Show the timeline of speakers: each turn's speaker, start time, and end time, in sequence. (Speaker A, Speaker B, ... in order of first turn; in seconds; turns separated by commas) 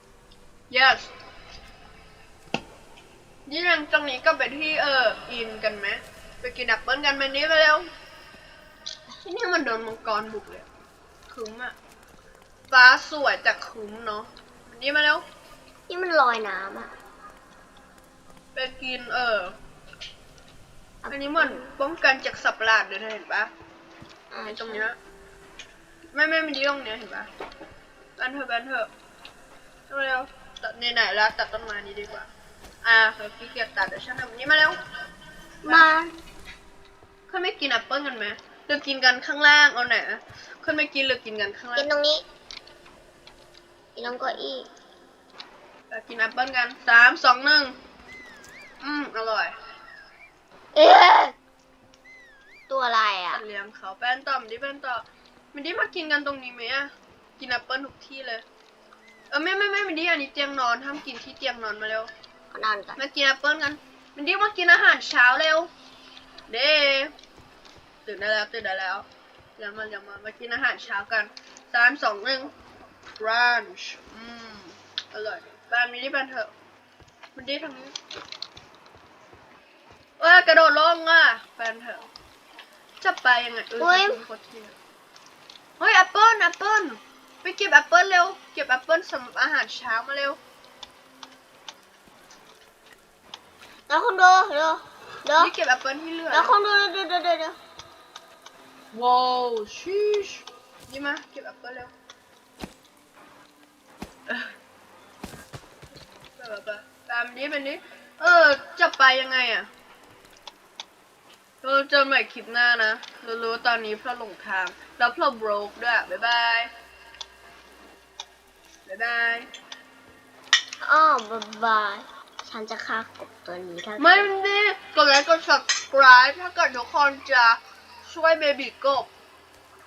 Speaker A: 0.7-1.1, Speaker A: 3.5-7.9, Speaker A: 9.2-10.7, Speaker A: 11.3-11.8, Speaker A: 12.7-15.2, Speaker B: 15.9-16.9, Speaker A: 18.6-19.6, Speaker B: 21.0-21.8, Speaker A: 21.1-23.5, Speaker B: 24.3-24.9, Speaker A: 24.5-25.0, Speaker A: 26.1-27.3, Speaker A: 28.2-28.9, Speaker A: 29.9-32.3, Speaker A: 32.8-34.8, Speaker A: 35.6-35.9, Speaker B: 35.6-36.1, Speaker A: 37.3-41.9, Speaker B: 41.8-42.2, Speaker B: 44.0-44.7, Speaker A: 45.9-47.8, Speaker A: 48.8-49.5, Speaker B: 50.8-51.4, Speaker B: 52.7-53.4, Speaker A: 53.3-58.5, Speaker A: 59.3-62.1, Speaker B: 62.5-63.0, Speaker A: 63.0-65.7, Speaker A: 66.5-67.1, Speaker A: 68.0-72.5, Speaker A: 73.2-76.5, Speaker A: 77.4-78.0, Speaker A: 80.2-82.1, Speaker A: 83.0-84.8, Speaker B: 83.8-84.2, Speaker A: 85.8-90.4, Speaker B: 93.9-95.5, Speaker A: 95.4-96.5, Speaker B: 96.3-97.6, Speaker A: 98.9-101.9, Speaker A: 104.3-104.5, Speaker A: 106.4-109.7, Speaker A: 111.6-116.7, Speaker A: 118.9-119.5, Speaker B: 120.8-124.3, Speaker A: 124.0-129.1